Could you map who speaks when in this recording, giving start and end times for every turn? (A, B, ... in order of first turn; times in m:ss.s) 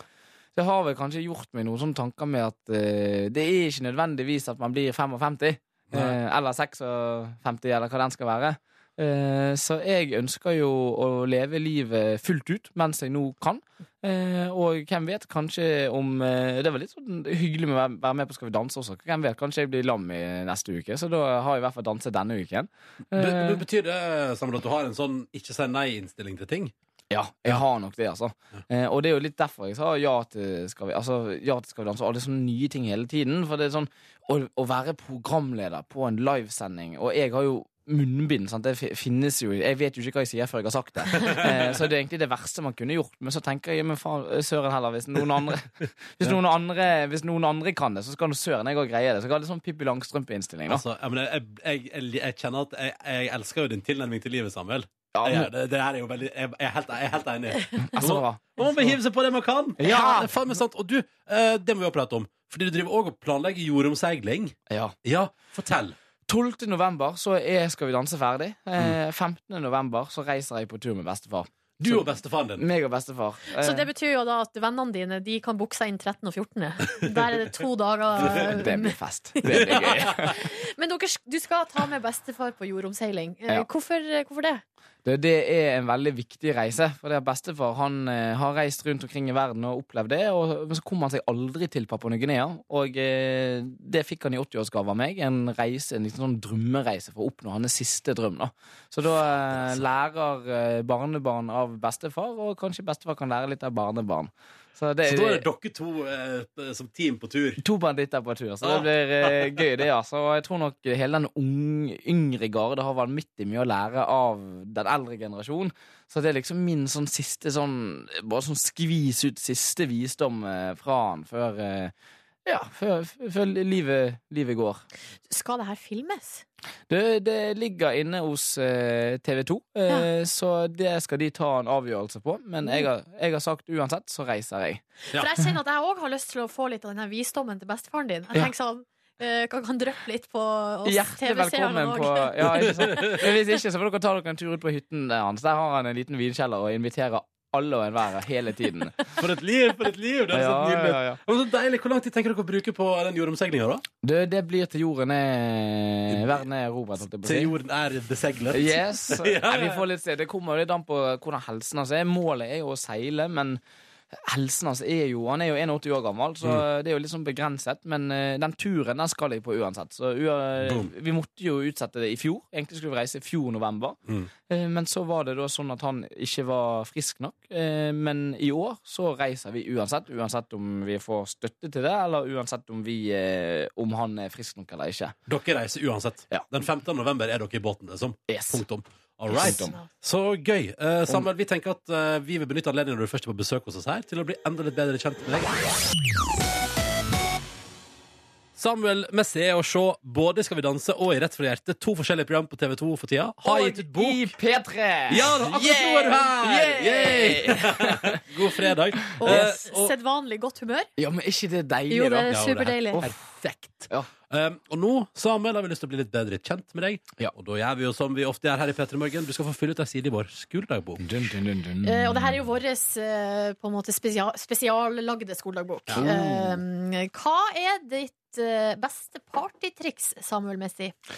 0:00.5-0:23.6 A
0:05.9-0:06.2 B
0:23.1-0:26.7 B
0:27.1-0:50.8 A
0:41.2-0:41.8 B
0:50.7-1:06.0 B
0:55.1-0:55.5 A
0:57.8-0:59.0 A
0:59.8-1:00.4 A
1:04.7-1:04.9 A
1:06.3-1:13.9 A
1:11.8-1:12.6 B
1:13.6-1:24.6 C
1:18.2-1:20.4 A
1:19.5-1:20.1 B
1:25.0-1:45.4 A
1:45.0-1:47.6 B
1:47.6-2:01.9 A
1:48.6-1:49.6 B
2:02.4-2:04.8 A
2:05.3-2:06.4 C
2:06.9-2:14.8 A
2:15.1-2:22.7 C
2:20.8-2:29.1 A
2:22.8-2:23.2 B
2:29.2-2:33.8 B
2:30.3-2:31.2 A
2:34.0-2:37.5 A
2:37.2-2:39.8 B
2:38.5-2:43.6 A
2:44.1-3:05.2 A
2:50.6-2:50.9 B
3:05.3-3:15.5 B
3:08.3-3:08.6 A
3:09.3-3:09.8 A
3:18.6-3:24.3 B
3:23.4-3:28.4 A
3:25.1-3:29.9 B
3:29.2-3:29.5 A
3:29.2-3:30.9 C
3:31.0-3:32.4 A
3:31.9-3:33.0 C
3:32.3-3:41.0 B
3:32.9-3:33.2 A
3:41.0-3:42.4 A
3:41.8-3:50.9 C
3:45.9-3:46.1 B
3:45.9-3:46.6 A